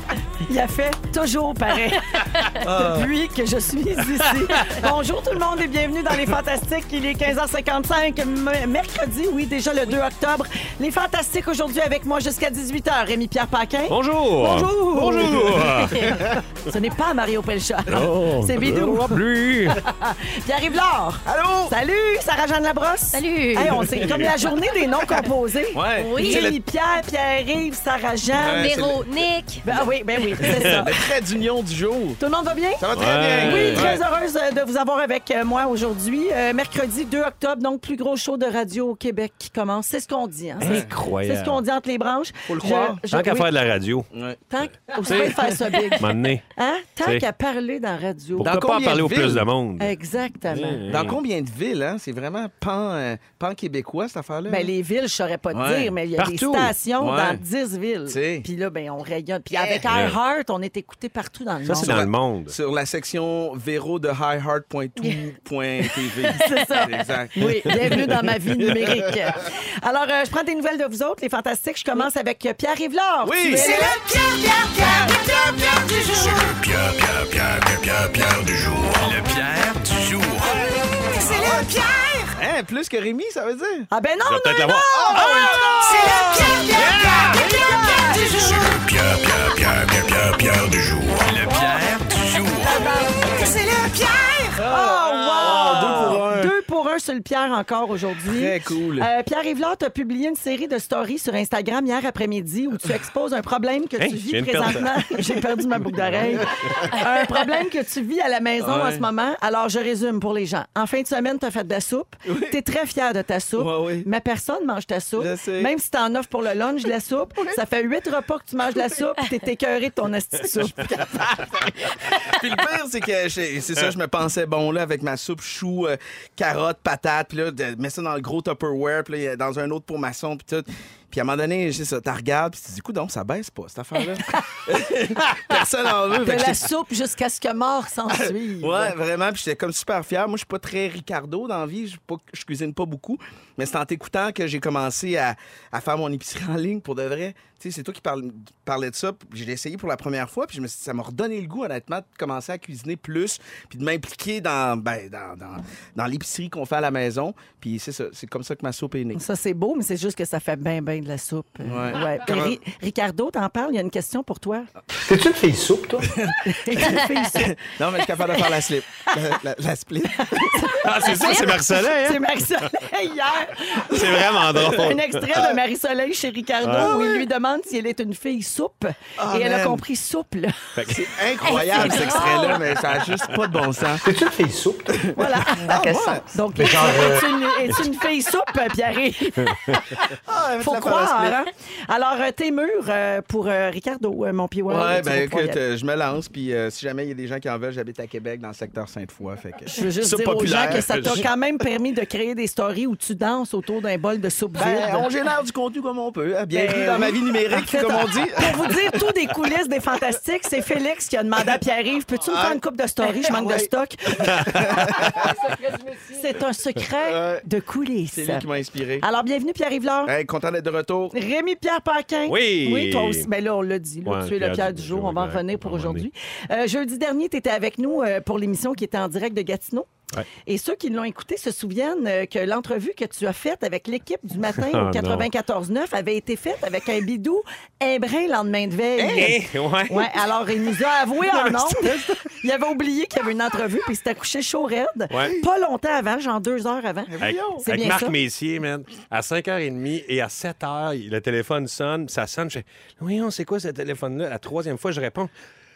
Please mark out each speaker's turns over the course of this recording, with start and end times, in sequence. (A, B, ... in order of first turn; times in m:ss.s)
0:00.4-0:19.2 A
0:02.6-0:03.1 B
0:13.9-0:16.4 C
0:17.9-0:19.8 C
0:19.7-0:28.7 A
0:21.2-0:21.8 B
0:23.1-0:23.9 D
0:23.9-0:24.4 C
0:25.7-0:26.6 B
0:26.0-0:26.5 D
0:28.4-0:29.1 B
0:28.6-0:29.6 D
0:29.6-0:30.9 A
0:29.6-0:32.2 B
0:32.2-0:32.8 A
0:32.8-0:34.0 B
0:32.9-0:34.0 C
0:33.4-0:43.5 A
0:40.6-0:41.6 C
0:40.6-0:40.9 B
0:42.5-0:43.0 B
0:43.1-0:44.1 C
0:44.1-0:44.4 B
0:44.5-0:48.5 A
0:45.0-0:46.4 C
0:48.4-0:50.0 C
0:48.4-0:49.4 B
0:49.8-0:50.8 A
0:50.5-0:51.2 C
0:50.9-0:54.7 B
0:54.5-1:02.0 A
0:55.5-0:55.9 B
0:56.2-0:56.8 C
0:57.0-0:57.4 B
0:58.1-0:58.5 B
0:59.5-0:59.9 B
0:59.9-1:00.2 C
1:01.6-1:02.6 C
1:01.8-1:07.9 B
1:05.0-1:05.2 D
1:06.3-1:14.0 A
1:06.4-1:06.9 D
1:07.6-1:08.1 C
1:08.6-1:08.9 B
1:13.2-1:13.8 B
1:13.6-1:15.2 E
1:14.8-1:16.6 B
1:15.8-1:16.4 E
1:17.2-1:20.6 B
1:21.2-1:21.6 B
1:22.4-1:23.9 B
1:23.9-1:28.7 A
1:24.2-1:25.5 C
1:24.9-1:28.0 B
1:26.3-1:27.7 E
1:26.7-1:27.4 C
1:29.3-1:30.4 B
1:31.1-1:32.8 B
1:32.6-1:33.8 A
1:34.4-2:01.7 A
1:34.6-1:36.5 B
1:35.4-1:36.2 C
1:38.3-1:39.1 B
1:44.0-1:45.2 C
1:46.0-1:46.7 C
1:48.6-1:49.1 B
1:52.3-1:52.6 B
1:53.6-1:54.1 B
1:55.2-1:55.7 B
2:00.5-2:16.6 B
2:14.3-2:14.7 A
2:16.2-2:18.9 A
2:18.6-2:39.2 B
2:39.2-2:44.7 A
2:41.6-2:42.6 B
2:45.0-2:46.1 F
2:46.1-2:50.7 B
2:46.4-2:47.5 A
2:50.1-3:00.8 A
2:50.8-2:52.6 C
2:53.9-2:55.4 C
2:56.6-2:57.2 C
2:59.2-2:59.8 B
3:00.8-3:01.1 C
3:00.9-3:04.1 B
3:01.4-3:02.6 D
3:01.8-3:03.2 C
3:04.0-3:05.1 F
3:05.2-3:10.0 A
3:05.6-3:07.3 F
3:05.7-3:06.0 B
3:09.5-3:09.8 C
3:10.1-3:11.4 B
3:10.6-3:15.6 A
3:14.7-3:21.2 B
3:19.7-3:25.1 A
3:20.5-3:21.3 C
3:24.6-3:28.7 B
3:26.5-3:34.9 A
3:32.2-3:33.7 B
3:34.2-3:35.1 C
3:34.3-3:35.4 B
3:36.0-3:38.5 A
3:37.0-3:37.4 B
3:38.1-3:39.0 B
3:39.0-3:40.1 A
3:40.1-3:41.2 B
3:41.1-3:49.9 A
3:42.3-3:43.3 C
3:44.0-3:46.1 C
3:50.4-4:08.2 A
3:54.6-3:55.3 C
3:59.0-3:59.4 B
3:59.1-4:00.1 C
4:01.2-4:02.3 C
4:05.1-4:05.4 C
4:07.1-4:07.6 B
4:07.2-4:15.3 C